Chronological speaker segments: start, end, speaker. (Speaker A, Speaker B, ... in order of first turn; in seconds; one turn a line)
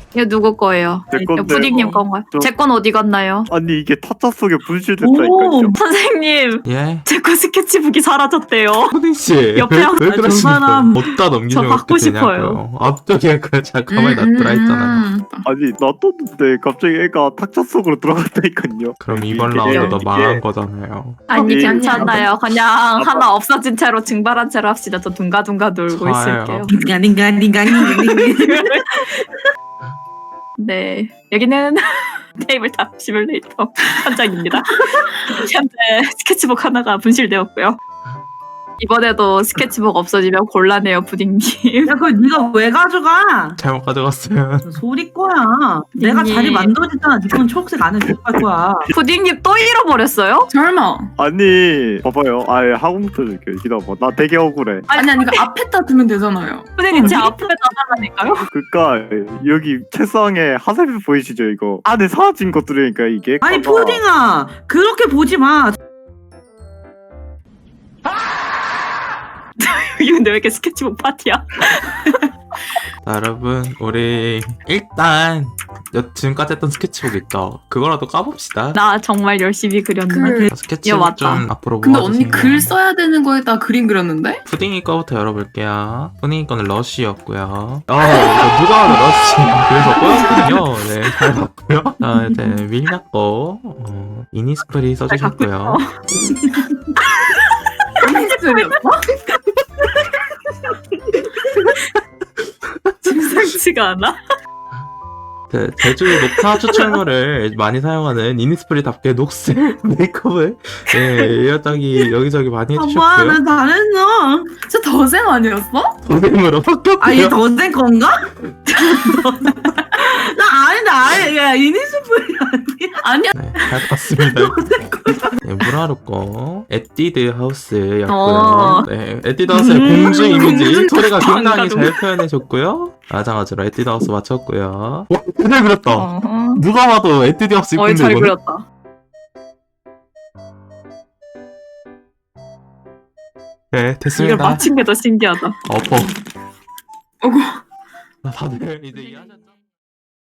Speaker A: 0.1-3.5
Speaker B: 1.1-2.5
Speaker B: 3.5-5.8
Speaker C: 5.0-5.8
Speaker A: 5.7-8.9
Speaker D: 6.6-7.0
Speaker D: 8.9-15.0
Speaker A: 9.5-10.6
Speaker C: 10.2-11.0
Speaker A: 11.5-12.6
Speaker E: 13.9-15.4
Speaker B: 15.4-20.4
Speaker D: 19.0-21.3
Speaker A: 19.7-20.0
Speaker A: 21.3-26.7
Speaker B: 21.3-22.1
Speaker E: 21.4-22.3
Speaker B: 23.0-23.2
Speaker D: 25.9-26.6
Speaker C: 26.7-28.9
Speaker A: 27.7-29.3
Speaker A: 30.6-37.8
Speaker A: 38.8-41.9
Speaker C: 41.9-43.6
Speaker D: 43.6-44.8
Speaker C: 44.6-48.9
Speaker A: 46.0-46.7
Speaker A: 48.9-50.5
Speaker E: 50.5-51.1
Speaker B: 51.2-54.9
Speaker A: 54.9-55.5
Speaker E: 54.9-57.3
Speaker A: 56.8-58.5
Speaker B: 58.5-64.0
Speaker C: 63.4-65.8
Speaker A: 69.6-72.2
Speaker D: 73.0-78.8
Speaker A: 78.7-81.5
Speaker E: 80.1-80.5
Speaker D: 80.5-82.7
Speaker E: 81.8-84.4
Speaker D: 84.5-95.8
Speaker E: 89.9-90.5
Speaker A: 95.1-95.9
Speaker C: 96.5-96.9
Speaker A: 97.1-98.7
Speaker E: 98.0-99.0
Speaker D: 102.8-103.1
Speaker A: 103.0-104.2
Speaker D: 105.5-113.4
Speaker A: 106.4-107.0
Speaker A: 110.9-111.3
Speaker C: 112.8-114.5
Speaker E: 114.6-115.9
Speaker D: 116.0-117.4
Speaker C: 117.0-118.2
Speaker C: 118.8-123.0
Speaker E: 123.0-123.3
Speaker D: 123.3-124.6
Speaker C: 124.6-125.1
Speaker D: 125.4-138.3
Speaker A: 128.1-128.9
Speaker A: 129.6-132.0
Speaker A: 135.9-136.6
Speaker A: 137.8-138.6
Speaker D: 143.7-144.6
Speaker A: 144.1-145.6
Speaker D: 145.7-146.1
Speaker E: 147.2-147.6
Speaker D: 148.2-149.5